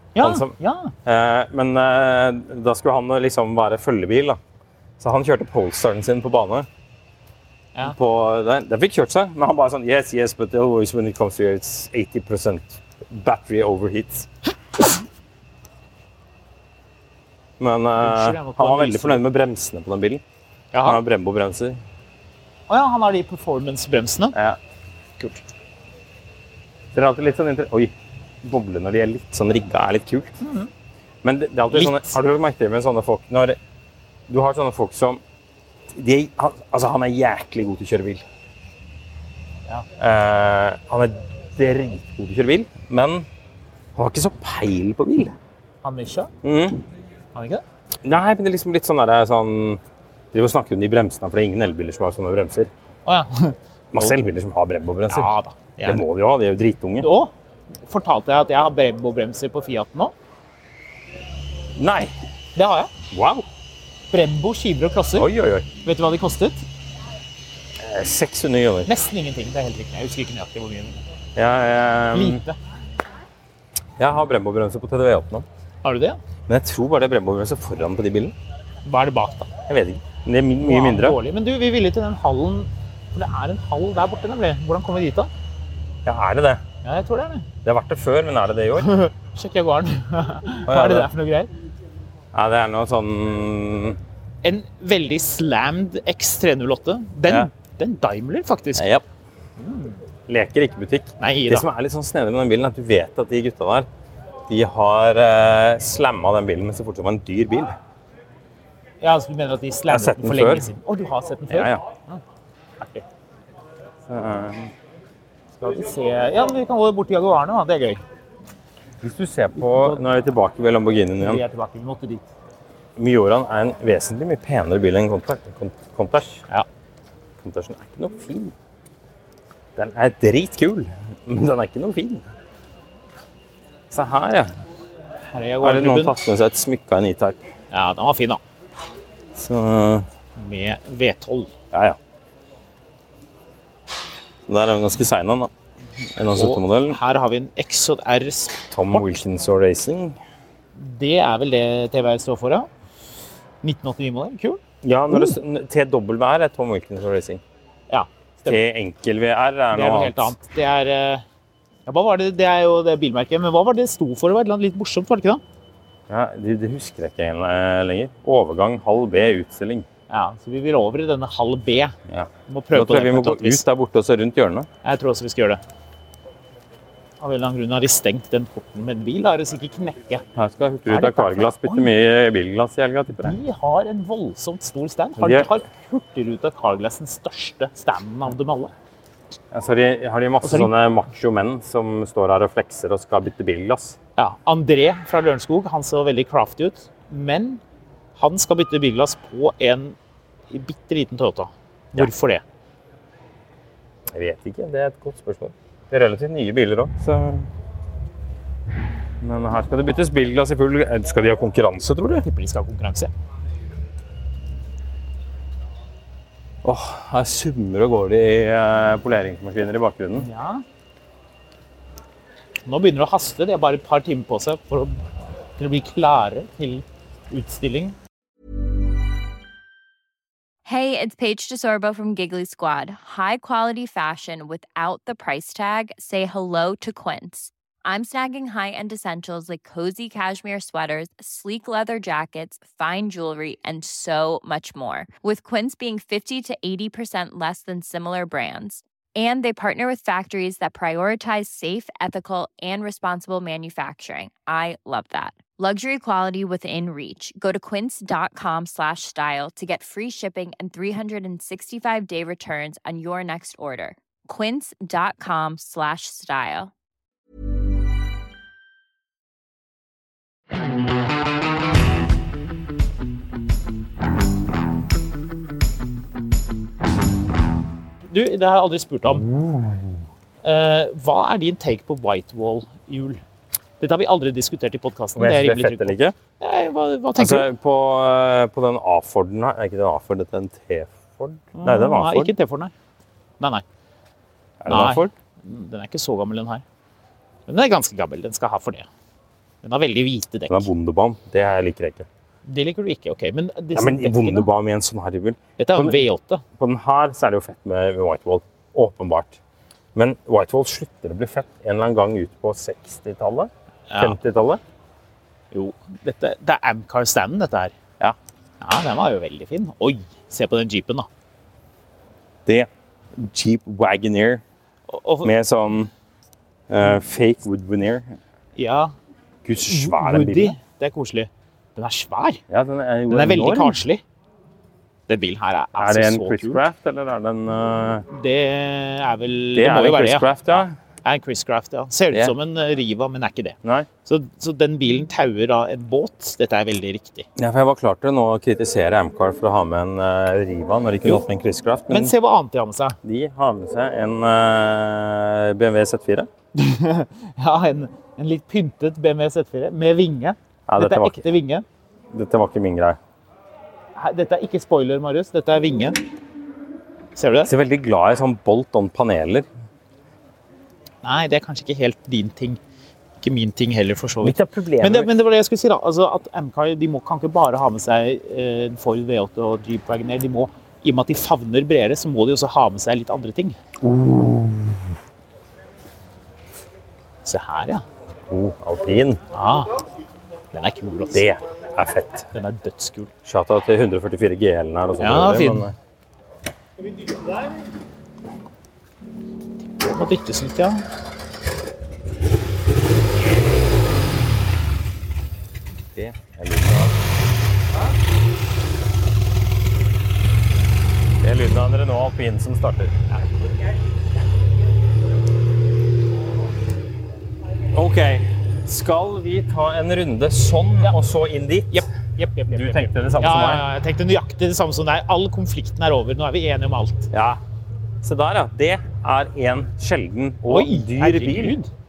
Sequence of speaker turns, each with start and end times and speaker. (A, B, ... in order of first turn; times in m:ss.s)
0:00.2-0:00.9 A
0:00.2-0:04.4 B
0:05.0-0:06.7 B
0:07.8-0:14.3 B
0:17.6-0:20.2 B
0:18.0-0:19.2 A
0:20.7-0:21.0 A
0:20.8-0:21.8 B
0:22.7-0:24.4 A
0:24.3-0:24.6 B
0:26.9-0:30.3 B
0:30.4-0:30.7 A
0:31.2-0:33.6 B
0:31.7-0:32.2 A
0:34.3-0:35.2 B
0:35.9-0:38.2 B
0:40.0-0:43.3 B
0:44.0-0:45.4 B
0:45.8-0:46.3 A
0:46.4-0:46.8 B
0:47.3-0:47.6 A
0:48.0-0:49.8 B
0:50.3-0:52.7 B
0:53.1-0:54.2 A
0:53.9-0:55.3 B
0:55.1-0:56.0 A
0:55.8-0:57.1 B
0:57.0-0:57.3 A
0:57.9-1:00.1 A
1:01.8-1:02.1 B
1:02.6-1:02.9 A
1:03.1-1:03.4 B
1:04.1-1:05.3 A
1:05.2-1:05.7 B
1:05.8-1:06.6 A
1:07.8-1:08.9 B
1:08.9-1:11.0 A
1:11.4-1:12.4 B
1:12.1-1:12.6 A
1:14.0-1:15.5 B
1:15.8-1:16.2 A
1:16.5-1:18.3 B
1:18.8-1:19.5 A
1:19.7-1:21.2 B
1:20.6-1:25.3 A
1:26.0-1:26.6 B
1:26.8-1:27.5 A
1:27.6-1:28.9 B
1:28.8-1:31.5 A
1:30.7-1:31.1 B
1:32.3-1:34.0 B
1:34.4-1:38.9 A
1:38.8-1:39.0 B
1:39.6-1:40.0 A
1:40.3-1:43.9 B
1:41.2-1:41.7 A
1:44.5-1:47.8 B
1:49.0-1:52.2 A
1:49.9-1:50.7 B
1:51.5-1:51.8 B
1:52.8-1:53.0 A
1:54.1-1:54.7 B
1:55.6-1:58.0 A
1:59.0-2:01.4 B
1:59.6-2:00.0 A
2:01.2-2:02.3 A
2:03.0-2:06.4 B
2:07.4-2:08.5 B
2:09.8-2:12.3 B
2:13.9-2:14.5 B
2:15.3-2:16.2 A
2:15.6-2:17.5 B
2:17.7-2:18.4 A
2:19.3-2:20.1 B
2:20.4-2:21.5 A
2:21.7-2:22.0 B
2:24.5-2:25.5 B
2:26.2-2:27.0 B
2:26.3-2:29.2 A
2:28.7-2:30.2 B
2:30.8-2:32.7 A
2:33.6-2:35.4 A
2:34.8-2:37.4 B
2:37.9-2:38.6 A
2:38.4-2:40.4 B
2:39.7-2:41.2 A
2:41.9-2:45.4 A
2:46.1-2:49.9 B
2:50.1-2:52.0 A
2:52.1-2:54.7 B
2:52.5-2:53.6 A
2:54.8-2:55.6 A
2:57.2-3:00.2 A
3:00.4-3:03.4 B
3:00.9-3:01.9 A
3:03.2-3:08.7 A
3:05.2-3:05.5 B
3:09.5-3:14.0 B
3:10.4-3:10.7 A
3:14.2-3:17.6 A
3:18.2-3:20.0 A
3:20.5-3:22.4 A
3:24.1-3:27.5 B
3:29.2-3:32.2 B
3:32.2-3:33.1 A
3:36.6-3:40.3 B
3:40.2-3:40.6 A
3:42.7-3:45.0 A
3:45.6-3:48.0 A
3:50.6-4:26.7 C
4:38.1-4:39.2 A
4:39.1-4:40.1 B
4:40.4-4:43.2 A
4:43.8-4:47.5 A
4:45.2-4:46.2 B
4:47.2-4:52.3 B
4:51.6-4:52.7 A
4:54.6-4:55.1 B
4:54.7-4:56.6 A
4:57.5-4:58.9 A
4:59.6-5:00.7 A
5:00.5-5:02.1 B
5:02.5-5:04.5 A
5:03.8-5:06.0 B
5:05.6-5:06.4 A
5:06.6-5:09.4 B
5:10.0-5:14.6 B
5:13.9-5:14.2 A
5:15.5-5:17.8 A
5:18.6-5:21.1 A
5:22.5-5:24.4 B
5:24.9-5:25.3 A
5:25.2-5:25.9 B
5:26.7-5:28.2 B
5:28.6-5:28.9 A
5:29.4-5:30.6 B
5:29.6-5:32.4 A
5:32.5-5:33.8 B
5:33.1-5:34.0 A
5:35.1-5:36.6 A
5:35.8-5:38.1 B
5:38.1-5:47.3 A
5:39.6-5:40.8 B
5:43.6-5:43.9 B
5:47.4-5:52.1 B
5:51.9-5:53.0 A
5:53.0-5:56.3 B
5:56.6-6:01.6 A
6:00.7-6:01.2 B
6:02.1-6:03.0 B
6:04.0-6:06.0 A
6:07.2-6:07.5 A
6:07.4-6:09.5 B
6:11.0-6:12.6 A
6:13.2-6:23.6 A
6:14.2-6:15.1 B
6:23.8-6:24.9 B
6:27.2-6:27.8 A
6:28.3-6:29.2 B
6:29.3-6:29.7 A
6:30.5-6:31.2 A
6:31.1-6:32.3 B
6:32.3-6:33.1 A
6:33.2-6:35.8 B
6:35.0-6:35.7 A
6:39.8-6:40.8 A
6:45.9-6:47.0 B
6:51.2-6:53.0 B
6:53.1-6:53.5 A
6:57.7-7:01.9 B
7:01.7-7:07.1 A
7:02.5-7:03.6 B
7:07.1-7:07.4 B
7:08.0-7:11.6 B
7:10.5-7:11.7 A